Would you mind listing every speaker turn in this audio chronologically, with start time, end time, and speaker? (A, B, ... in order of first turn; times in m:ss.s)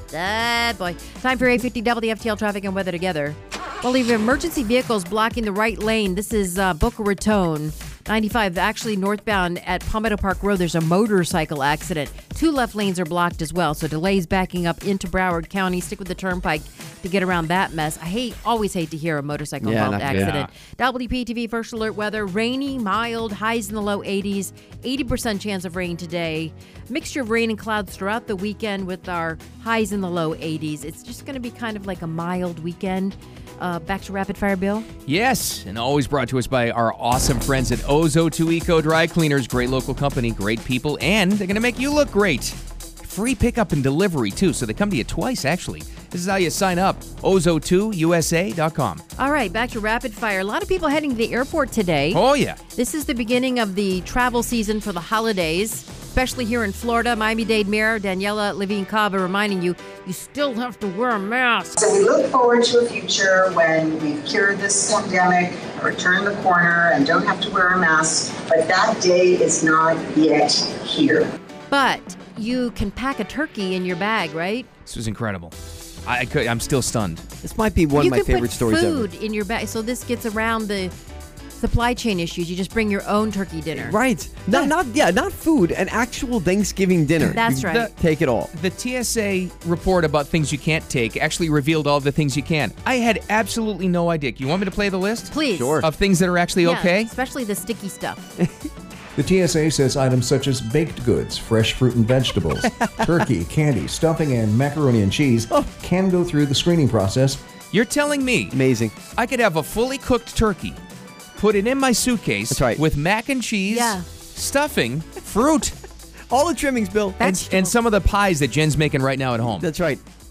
0:00.1-0:34.9 A
0:19.6-0:20.3 B
0:20.0-0:20.5 C
0:35.1-0:49.0 C
0:49.2-1:01.9 A
0:52.1-0:52.6 C
1:01.8-1:11.3 D
1:11.7-1:14.7 A
1:14.9-1:15.5 C
1:16.1-1:17.2 C
1:17.4-1:19.1 B
1:18.0-1:20.9 A
1:21.6-1:24.0 A
1:23.7-1:28.5 B
1:27.4-1:27.9 A
1:27.4-1:27.9 C
1:28.5-1:37.1 C
1:35.3-1:35.8 A
1:35.6-1:35.9 B
1:36.6-1:38.4 A
1:39.2-1:47.4 E
1:42.6-1:43.3 B
1:47.7-1:48.6 C
1:48.5-1:49.0 B
1:49.2-1:50.8 C
1:51.4-1:55.8 C
1:52.5-1:52.8 B
1:53.7-1:54.0 A
1:56.3-1:57.3 B
1:57.2-1:59.7 C
1:57.2-1:57.8 A
1:59.4-2:00.0 B